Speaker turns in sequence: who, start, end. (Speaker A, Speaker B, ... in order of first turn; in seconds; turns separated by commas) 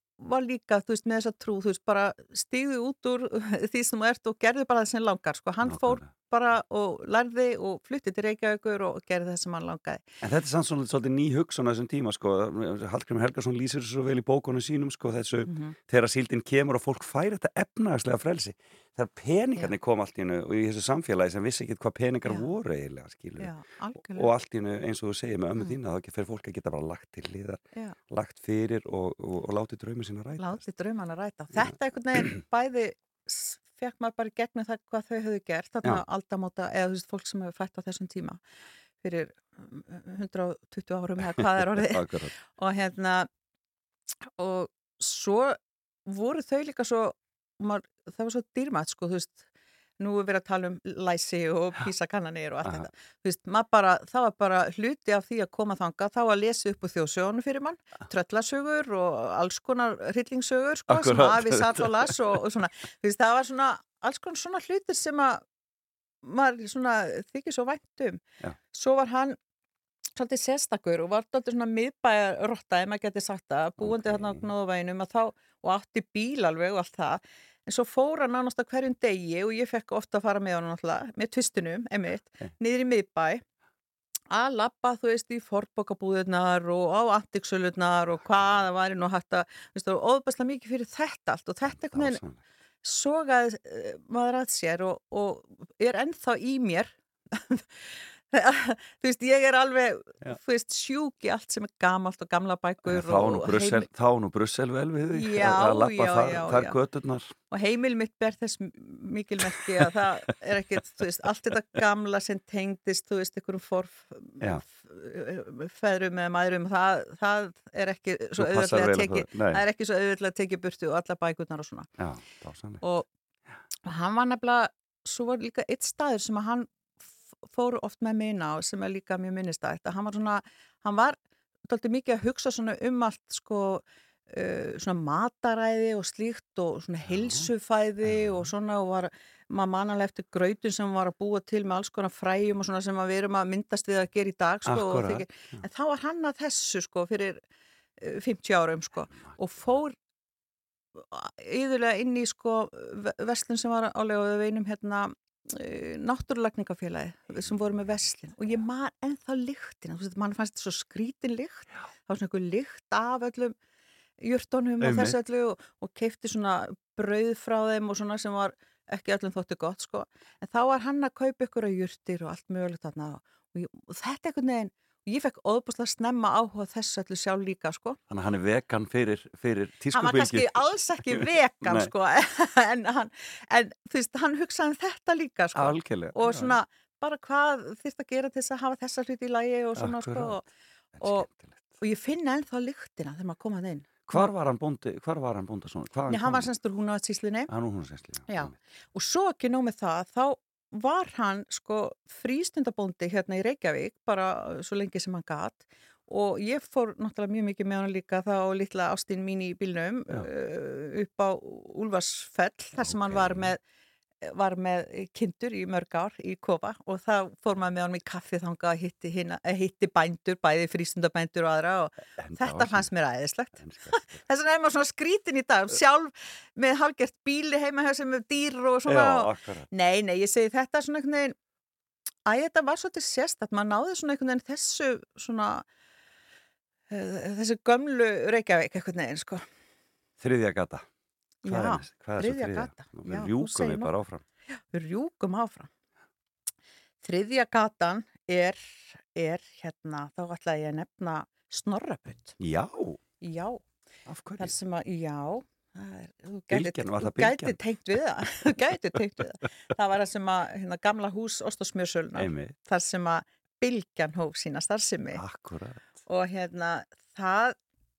Speaker A: 0.2-10.0, Speaker B: 5.6-6.1, Speaker B: 10.2-30.6, Speaker A: 15.4-15.8, Speaker A: 23.4-24.3, Speaker A: 30.4-38.4, Speaker A: 39.0-43.3, Speaker B: 41.4-42.3, Speaker A: 44.4-49.4, Speaker A: 50.0-65.4, Speaker B: 60.9-62.1, Speaker A: 66.2-69.4, Speaker A: 70.2-83.4, Speaker B: 73.8-74.4, Speaker A: 84.3-92.2, Speaker B: 91.7-92.4, Speaker A: 92.8-103.9, Speaker B: 102.8-107.3, Speaker A: 105.1-106.8, Speaker A: 107.5-121.9, Speaker B: 118.4-119.6, Speaker B: 122.0-122.8, Speaker A: 122.8-123.1, Speaker A: 123.8-126.7, Speaker A: 127.5-147.4, Speaker B: 137.1-137.5, Speaker B: 138.1-138.5, Speaker B: 144.7-145.6, Speaker A: 148.0-149.9, Speaker B: 149.1-149.4, Speaker A: 151.0-163.5, Speaker B: 157.3-158.6, Speaker A: 164.2-178.0, Speaker B: 164.8-165.2, Speaker B: 178.1-181.9, Speaker A: 179.9-190.4, Speaker B: 185.5-186.6, Speaker B: 189.8-190.4, Speaker B: 190.9-191.8, Speaker A: 191.0-191.3, Speaker A: 191.8-194.3, Speaker B: 194.1-196.5, Speaker A: 196.1-197.5, Speaker B: 197.5-198.6, Speaker A: 198.3-213.6, Speaker B: 212.8-213.5, Speaker A: 214.2-231.3, Speaker B: 222.2-222.9, Speaker B: 223.6-224.2, Speaker B: 228.8-229.7, Speaker A: 232.2-235.6, Speaker A: 236.9-239.4, Speaker B: 240.2-240.9, Speaker A: 241.4-243.9, Speaker B: 241.4-244.2, Speaker A: 244.7-245.7, Speaker A: 247.0-252.4, Speaker B: 252.4-253.0, Speaker A: 253.2-253.6, Speaker B: 254.1-254.5, Speaker A: 254.4-265.2, Speaker B: 256.5-257.6, Speaker B: 262.1-262.6, Speaker B: 265.1-265.9, Speaker A: 266.1-267.6